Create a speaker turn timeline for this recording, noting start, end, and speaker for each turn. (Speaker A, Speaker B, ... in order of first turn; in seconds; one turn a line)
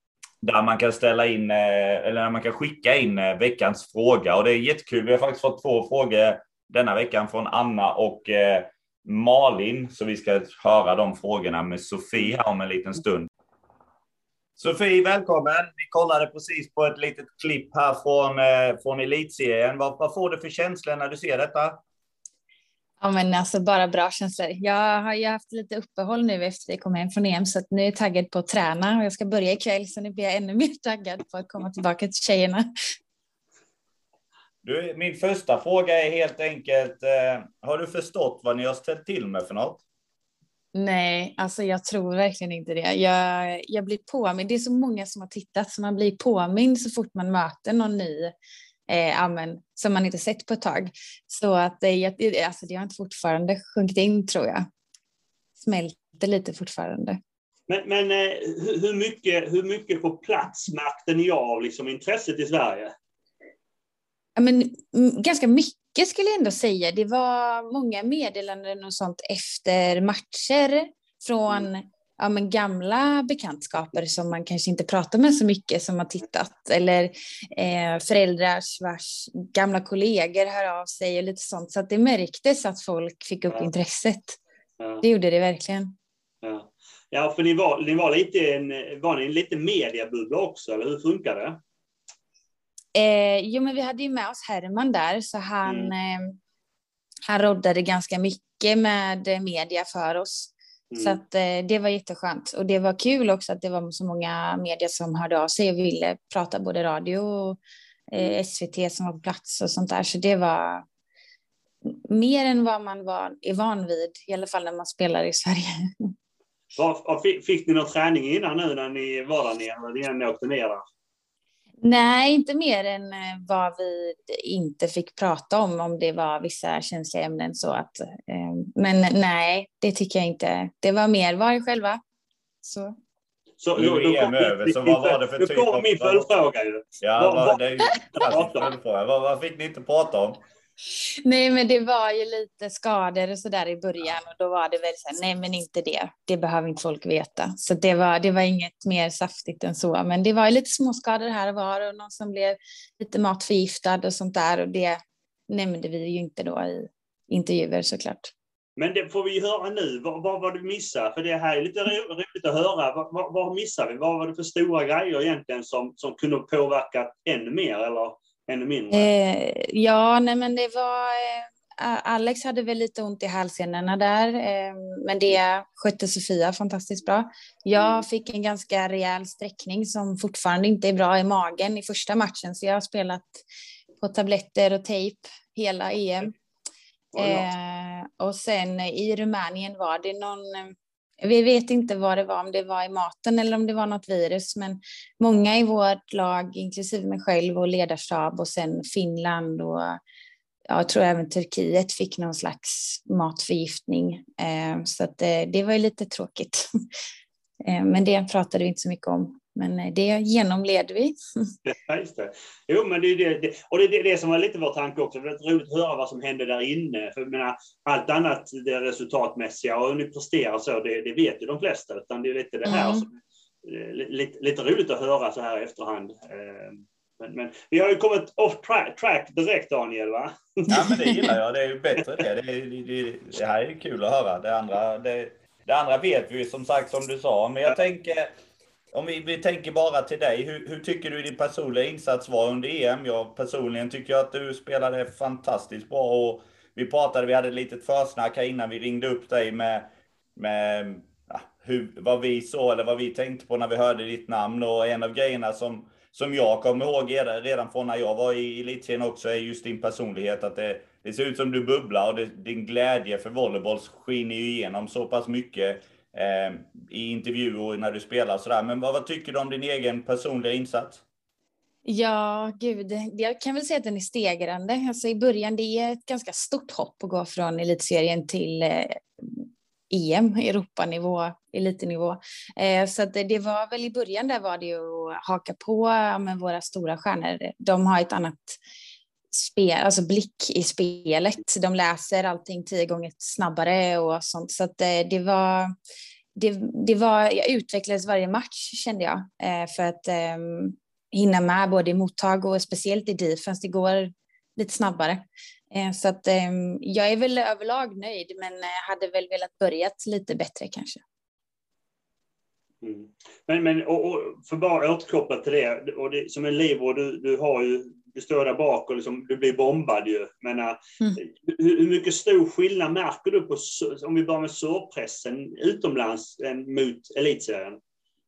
Speaker A: 0.4-13.3
Speaker A: 14.6-21.8
Speaker B: 23.0-32.6
Speaker A: 34.6-39.8
Speaker B: 40.7-48.3
Speaker B: 48.9-54.6
Speaker B: 55.6-57.2
Speaker C: 57.7-62.9
Speaker B: 64.3-84.4
Speaker B: 85.0-85.9
Speaker C: 86.4-91.6
Speaker B: 92.9-96.3
Speaker C: 95.7-95.9
Speaker B: 97.3-107.6
Speaker C: 100.9-101.2
Speaker B: 108.1-110.8
Speaker B: 111.9-116.1
Speaker C: 116.8-120.8
Speaker B: 121.8-132.0
Speaker B: 132.6-132.9
Speaker C: 133.6-137.6
Speaker A: 133.7-136.3
Speaker A: 137.0-140.4
Speaker C: 138.1-138.7
Speaker B: 141.2-158.3
Speaker C: 158.8-169.1
Speaker B: 168.9-183.4
Speaker C: 177.8-178.1
Speaker B: 184.0-186.3
Speaker C: 187.1-187.5
Speaker B: 187.2-200.0
Speaker B: 200.7-206.7
Speaker B: 207.6-211.5
Speaker C: 211.6-223.1
Speaker B: 222.7-223.1
Speaker C: 223.6-230.6
Speaker A: 230.7-238.3
Speaker B: 230.8-231.3
Speaker A: 238.9-271.0
Speaker B: 271.9-288.6
Speaker B: 289.3-295.7
Speaker B: 296.3-311.0
Speaker C: 312.8-327.8